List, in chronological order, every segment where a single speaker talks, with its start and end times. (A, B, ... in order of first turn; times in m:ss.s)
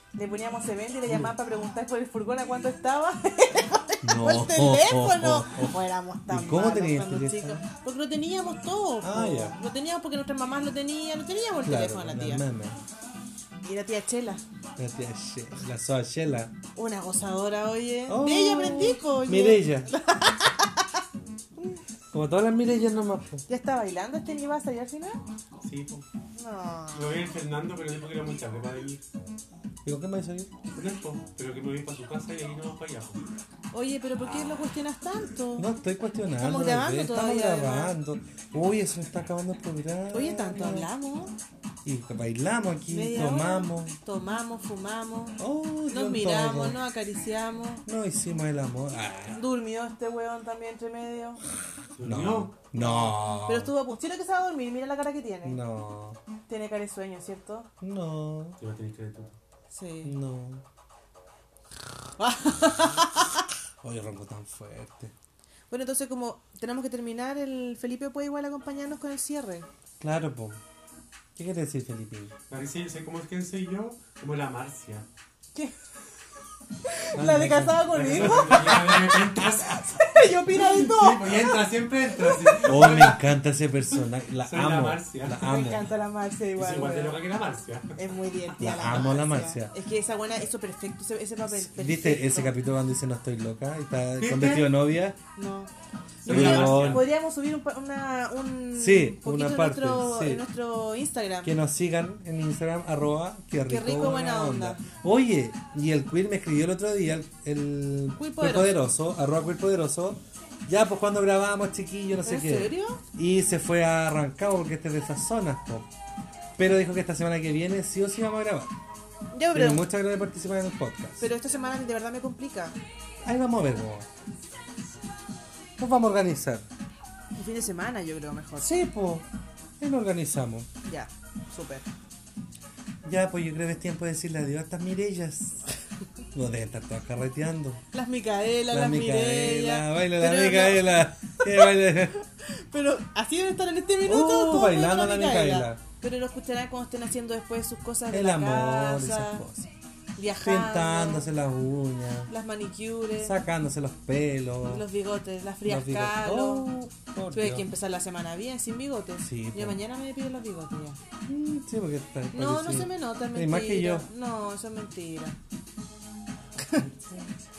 0:00.1-0:12.4 A
0:01.1-0:01.3 B
0:04.0-0:05.8 B
0:06.3-0:07.6 B
0:09.0-0:09.6 B
0:11.6-0:12.8 B
0:13.6-0:14.4 A
0:14.8-0:16.5 B
0:16.7-0:21.0 A
0:18.1-0:19.9 B
0:22.1-0:23.4 B
0:23.5-0:25.2 A
0:25.6-0:26.0 C
0:26.4-0:27.2 A
0:26.9-0:29.0 C
0:29.8-0:30.5 B
0:30.7-0:33.2 C
0:33.7-0:35.7 A
0:35.6-0:40.9 B
0:36.4-0:38.0 A
0:40.1-0:41.3 A
0:41.8-0:44.0 B
0:42.9-0:47.8 A
0:45.4-0:46.8 B
0:47.8-0:49.4 B
0:49.3-0:51.4 A
0:52.0-0:52.5 C
0:52.0-0:53.7 B
0:52.7-0:55.6 A
0:55.4-0:56.2 B
0:56.5-0:57.7 A
0:57.8-0:58.6 B
0:58.6-0:59.3 C
0:59.7-1:00.1 A
1:00.0-1:00.6 B
1:02.2-1:03.4 A
1:03.8-1:05.1 B
1:05.7-1:09.7 A
1:10.0-1:10.6 B
1:11.4-1:12.3 B
1:12.5-1:15.1 C
1:16.8-1:19.1 A
1:17.1-1:19.7 B
1:17.9-1:23.2 C
1:19.9-1:22.7 A
1:22.6-1:25.9 B
1:24.4-1:25.4 C
1:25.3-1:27.2 A
1:26.6-1:28.0 C
1:27.9-1:32.6 A
1:28.6-1:29.7 B
1:31.5-1:35.2 B
1:34.2-1:34.6 C
1:34.4-1:34.7 A
1:35.3-1:35.7 A
1:36.2-1:41.5 A
1:36.2-1:37.0 C
1:36.3-1:37.0 B
1:38.8-1:40.4 B
1:41.4-1:55.9 B
1:43.6-1:44.8 A
1:48.2-1:48.7 A
1:52.2-1:53.0 A
1:56.6-1:58.7 B
1:59.3-1:59.8 A
1:59.5-2:01.3 B
2:01.2-2:02.8 A
2:03.2-2:04.1 B
2:05.8-2:06.7 B
2:07.4-2:08.7 A
2:08.6-2:09.2 B
2:09.8-2:10.7 B
2:10.8-2:11.9 A
2:13.0-2:15.6 B
2:16.3-2:17.8 B
2:17.9-2:29.4 A
2:18.7-2:22.2 B
2:24.0-2:25.8 B
2:28.1-2:29.7 B
2:30.2-2:31.2 A
2:30.4-2:32.3 B
2:32.3-2:33.3 A
2:33.2-2:34.8 B
2:34.6-2:36.7 A
2:35.6-2:37.6 B
2:37.3-2:41.0 A
2:39.2-2:39.8 B
2:41.2-2:44.1 B
2:42.3-2:45.4 A
2:46.6-2:46.9 A
2:46.9-2:47.2 B